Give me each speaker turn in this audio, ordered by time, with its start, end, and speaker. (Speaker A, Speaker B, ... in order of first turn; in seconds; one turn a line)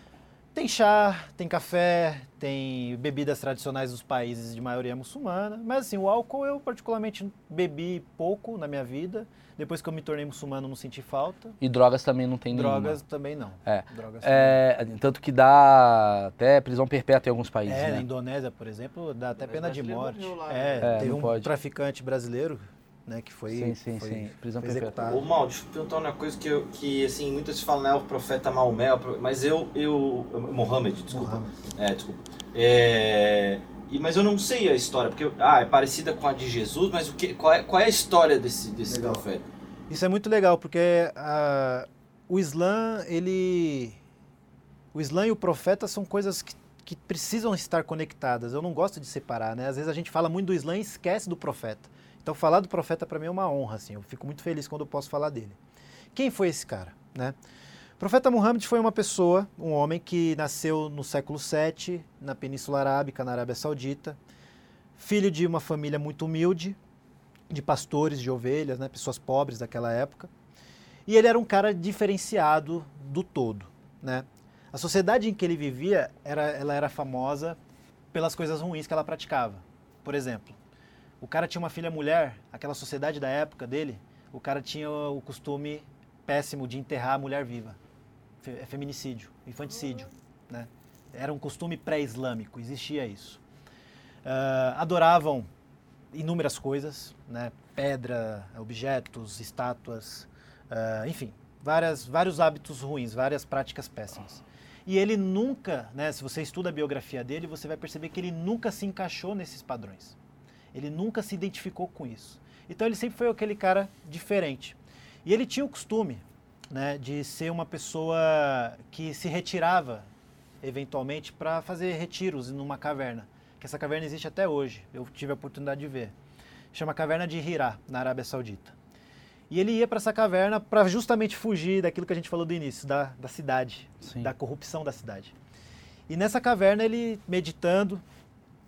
Speaker A: 0.5-11.6
Speaker B: 11.6-13.0
Speaker A: 12.5-14.6
Speaker B: 13.6-18.0
Speaker A: 17.6-25.2
Speaker C: 19.4-21.1
Speaker B: 20.8-21.5
Speaker B: 23.5-24.9
Speaker C: 25.0-39.5
Speaker A: 31.1-31.5
Speaker A: 38.9-39.2
Speaker A: 39.9-44.0
Speaker A: 44.9-55.6
Speaker A: 56.1-57.4
Speaker A: 58.0-64.2
Speaker A: 65.0-66.8
Speaker A: 67.5-70.3
Speaker A: 71.0-77.6
Speaker A: 78.1-80.6
Speaker A: 81.2-87.8
Speaker A: 88.4-93.4
Speaker A: 94.2-95.5
Speaker A: 96.1-110.2
Speaker A: 110.7-120.1
Speaker A: 120.6-126.1
Speaker A: 126.7-128.7
Speaker A: 129.5-135.3
Speaker B: 134.0-134.3
Speaker A: 136.1-138.0